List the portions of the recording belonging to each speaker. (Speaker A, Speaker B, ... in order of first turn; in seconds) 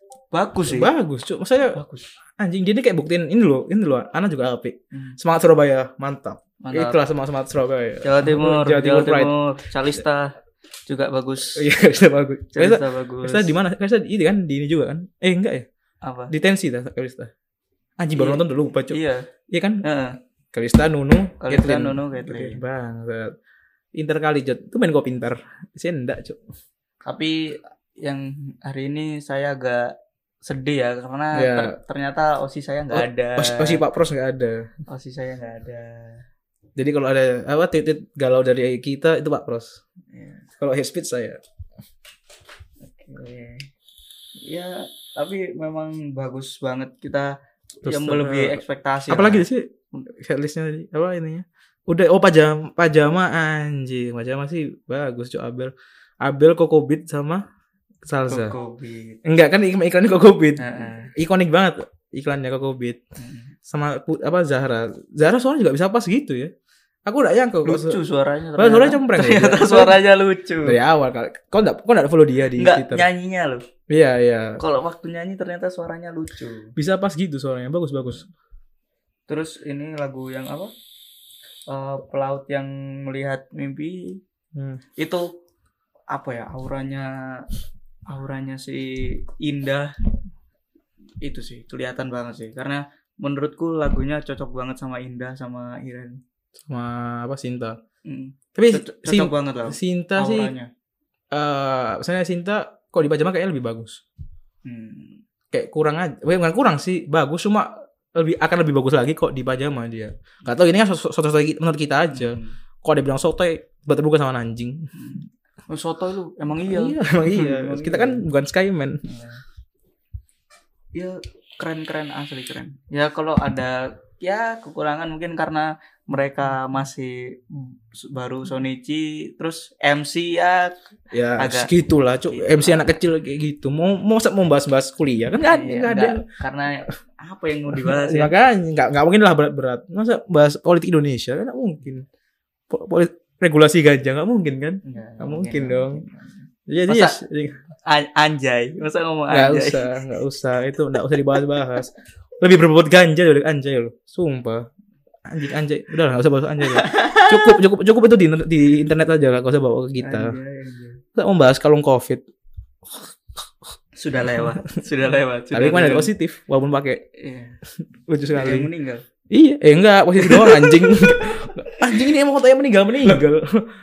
Speaker A: 0.3-0.9, 1.7-2.1, 4.9-5.2, 6.6-7.0, 8.0-10.3, 10.9-11.7, 12.5-13.5, 16.1-16.3, 18.1-19.2, 19.8-20.2, 21.4-22.6, 27.1-29.9, 30.4-33.8, 34.9-36.2, 40.1-40.5, 42.8-43.7, 44.4-47.3, 47.8-49.5, 58.3-59.2, 60.6-61.1, 63.2-63.5, 67.7-70.8, 72.6-73.6, 74.6-76.7, 79.3-80.7, 81.7-84.2, 85.0-85.3, 86.1-87.5, 88.1-89.9, 91.2-96.2, 98.0-100.7, 104.7-105.2, 112.1-112.5, 115.0-118.3, 119.1-119.4, 121.0-130.8, 131.4-131.7, 132.3-132.9, 135.4-138.3, 144.8-146.2, 146.9-147.2, 147.8-149.9, 156.6-157.6, 160.0-161.0, 164.0-166.1, 167.2-167.6, 168.3-169.0, 170.2-172.0
Speaker B: 0.7-1.8, 2.4-9.3, 11.6-15.7, 16.3-17.3, 18.0-19.0, 19.5-19.8, 20.5-23.4, 23.9-26.4, 31.4-31.7, 32.9-34.7, 36.8-39.8, 40.6-41.4, 47.8-57.4, 58.0-58.5, 59.2-63.0, 63.7-66.5, 67.0-68.0, 68.6-70.0, 70.7-73.0, 73.9-74.6, 76.8-78.3, 84.5-84.8, 96.7-97.8, 98.5-100.5, 101.3-104.0, 105.5-114.9, 116.7-119.0, 131.1-136.2, 137.7-142.1, 142.7-146.0, 146.7-147.6, 149.3-154.7, 155.3-160.3, 161.2-162.2, 165.5-167.0, 168.1-168.7, 169.3-173.7